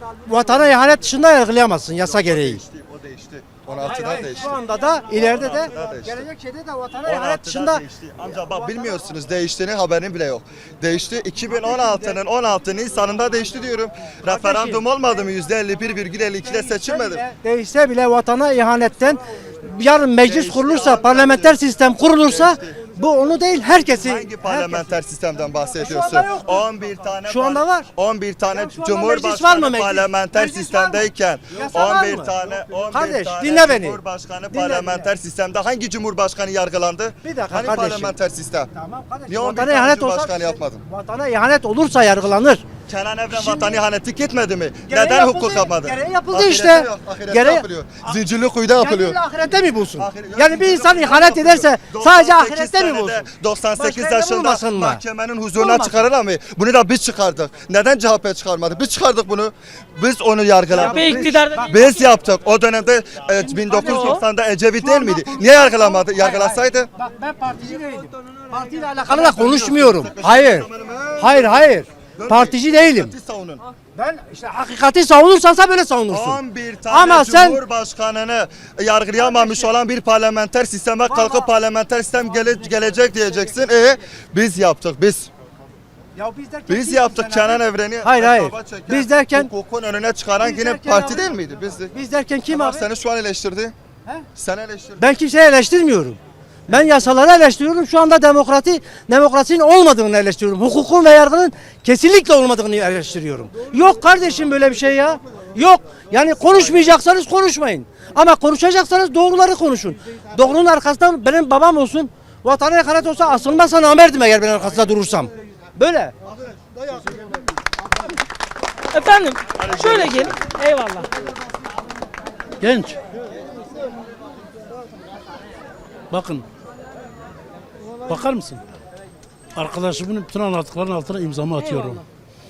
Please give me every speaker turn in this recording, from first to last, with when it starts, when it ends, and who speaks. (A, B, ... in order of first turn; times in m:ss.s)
0:00.2-0:02.6 A
0:02.0-0:04.6 B
0:03.7-0:07.8 A
0:05.1-0:06.3 B
0:07.0-0:17.2 B
0:14.3-0:14.8 A
0:16.5-0:24.9 A
0:20.2-0:22.8 B
0:23.9-0:38.7 B
0:25.6-0:26.6 A
0:27.2-0:27.9 A
0:28.5-0:32.3 A
0:32.9-0:34.0 A
0:34.5-0:35.1 A
0:37.2-0:38.2 A
0:38.7-0:42.6 A
0:39.3-0:40.8 B
0:42.9-0:49.2 B
0:43.3-0:43.8 A
0:44.9-0:48.1 A
0:48.8-0:53.2 A
0:49.9-1:06.9 B
0:53.8-0:55.0 A
0:55.6-0:56.0 A
1:00.7-1:01.7 A
1:00.7-1:02.1 C
1:03.4-1:04.2 A
1:03.8-1:04.2 C
1:04.8-1:13.1 A
1:09.0-1:13.6 B
1:14.0-1:17.6 A
1:16.1-1:25.3 B
1:19.2-1:19.7 A
1:21.1-1:21.5 A
1:26.2-1:29.5 A
1:26.7-1:31.9 B
1:30.4-1:31.3 A
1:31.9-1:32.9 A
1:32.5-1:33.7 B
1:34.4-1:35.1 B
1:35.0-1:56.1 A
1:58.9-2:01.1 C
1:59.6-2:00.4 B
2:02.6-2:03.0 D
2:06.1-2:06.5 D
2:08.0-2:08.6 D
2:09.6-2:12.0 D
2:11.6-2:12.0 C